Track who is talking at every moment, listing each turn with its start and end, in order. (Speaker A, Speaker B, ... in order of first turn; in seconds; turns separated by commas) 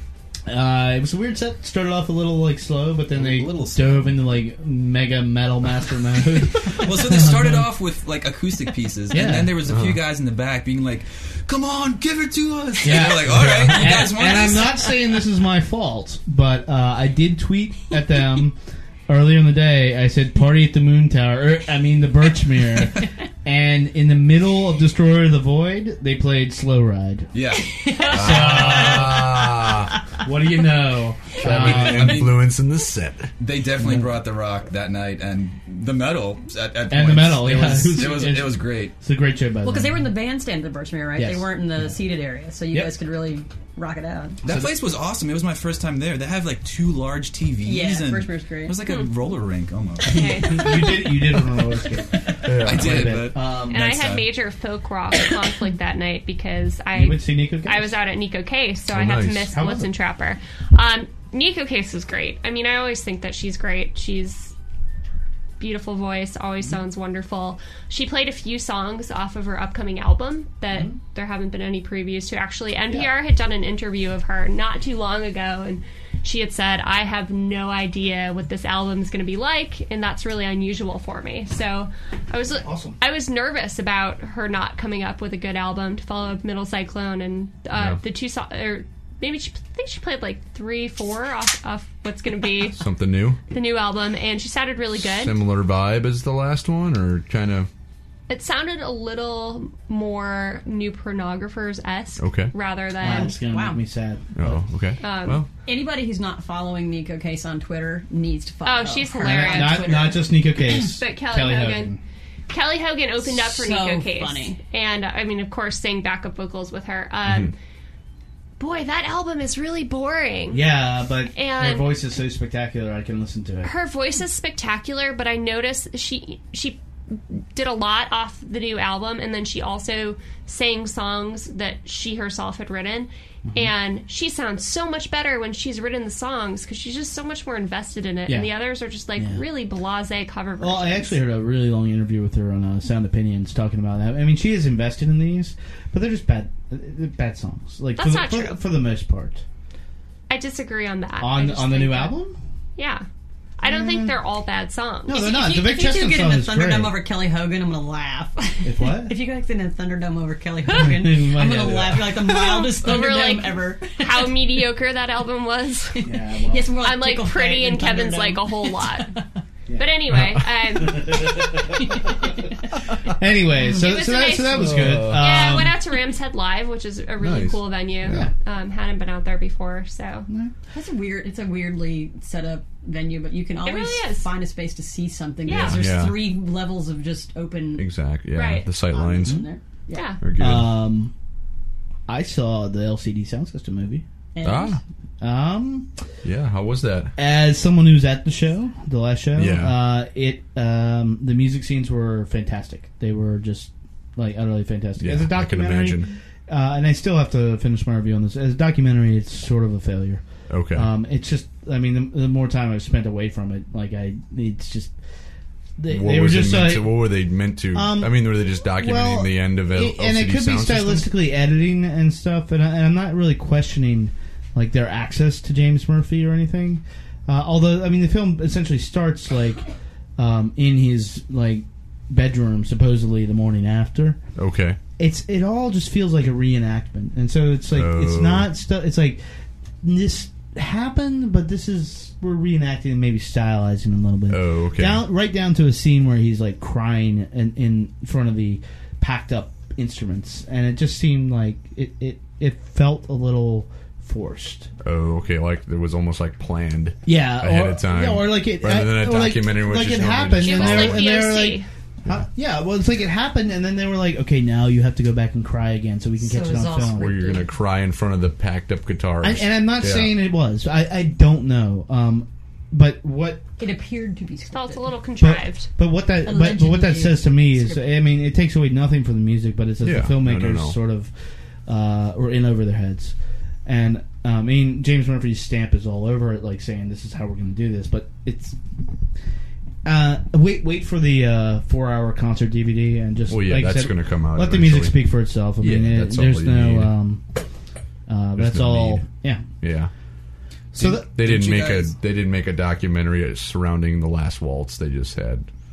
Speaker A: 0.5-7.7, Speaker B: 3.1-4.2, Speaker B: 6.7-14.9, Speaker A: 9.1-9.6, Speaker C: 9.7-10.1, Speaker A: 12.8-27.3, Speaker C: 13.3-13.8, Speaker B: 27.3-28.6, Speaker D: 27.6-30.0, Speaker C: 28.1-30.0, Speaker A: 28.1-29.4, Speaker A: 30.2-32.4, Speaker C: 31.3-33.3, Speaker B: 31.4-32.5, Speaker B: 33.4-38.9, Speaker A: 33.8-34.1, Speaker A: 36.9-40.1, Speaker D: 39.6-44.4, Speaker A: 41.1-41.9, Speaker A: 42.7-43.0, Speaker B: 44.4-50.6, Speaker A: 44.4-44.8, Speaker D: 47.6-48.8, Speaker A: 50.0-53.9, Speaker E: 50.1-51.1, Speaker B: 52.3-54.3, Speaker C: 52.4-53.2, Speaker E: 53.7-64.5, Speaker A: 56.9-58.0, Speaker C: 58.9-59.5, Speaker A: 59.5-59.9, Speaker E: 65.6-92.8, Speaker A: 82.6-83.0, Speaker C: 92.7-93.4, Speaker E: 93.5-95.3, Speaker C: 95.0-97.7, Speaker E: 98.3-103.3, Speaker C: 102.2-102.5, Speaker A: 103.0-104.6, Speaker D: 103.1-103.8, Speaker C: 104.3-105.5, Speaker E: 105.0-105.4, Speaker D: 105.7-110.2, Speaker E: 108.6-111.9, Speaker A: 109.2-112.0, Speaker E: 112.5-117.5, Speaker D: 113.2-114.6, Speaker C: 117.2-117.5, Speaker E: 118.6-120.6, Speaker A: 120.5-123.7, Speaker E: 121.3-121.9, Speaker E: 123.6-141.2, Speaker A: 138.3-138.5, Speaker A: 139.2-139.4, Speaker A: 140.6-149.4, Speaker E: 148.0-148.6, Speaker E: 150.3-152.2, Speaker A: 151.2-152.4, Speaker E: 152.8-153.1, Speaker E: 153.6-155.3, Speaker A: 153.6-154.2, Speaker A: 155.0-157.0, Speaker D: 155.1-164.3, Speaker A: 158.6-159.1, Speaker A: 160.7-162.1, Speaker E: 162.2-166.0, Speaker D: 165.9-169.2, Speaker A: 166.0-166.8, Speaker E: 166.8-169.2, Speaker A: 169.7-172.0, Speaker E: 169.7-171.4, Speaker D: 171.7-172.3, Speaker A: 173.1-175.8, Speaker E: 173.7-180.3, Speaker C: 174.6-175.2, Speaker C: 177.2-178.3, Speaker A: 178.0-178.3, Speaker A: 180.3-180.5, Speaker D: 180.7-187.9, Speaker E: 183.6-184.3, Speaker E: 185.4-185.8, Speaker C: 185.5-186.2, Speaker C: 187.8-189.4, Speaker E: 188.3-188.7, Speaker D: 188.9-190.1, Speaker E: 189.9-190.2, Speaker C: 190.2-190.8, Speaker A: 190.4-191.1, Speaker A: 192.1-194.0, Speaker D: 194.3-194.8, Speaker C: 194.4-194.8, Speaker A: 195.2-195.9, Speaker C: 196.2-197.1, Speaker A: 197.2-214.9, Speaker C: 199.3-199.8, Speaker C: 205.0-206.1, Speaker C: 210.5-210.9, Speaker A: 215.8-229.7, Speaker C: 215.9-221.1, Speaker A: 230.2-234.2, Speaker C: 234.3-234.8, Speaker A: 235.0-239.2, Speaker C: 237.7-238.5, Speaker A: 239.8-254.7, Speaker C: 244.3-245.0, Speaker C: 254.8-261.1, Speaker A: 257.1-267.3, Speaker E: 260.3-261.7, Speaker D: 266.2-267.5, Speaker C: 266.8-270.1, Speaker A: 269.2-273.4, Speaker D: 273.6-274.9, Speaker E: 274.5-275.7, Speaker A: 275.2-281.1, Speaker D: 276.2-278.0, Speaker C: 279.8-280.8, Speaker A: 281.6-283.1, Speaker A: 283.6-288.6, Speaker A: 289.8-297.2, Speaker C: 293.3-295.0, Speaker C: 295.6-296.9, Speaker A: 298.1-299.5, Speaker C: 298.4-299.1, Speaker C: 299.6-299.9, Speaker A: 300.7-301.1, Speaker B: 300.8-301.9, Speaker C: 300.8-305.5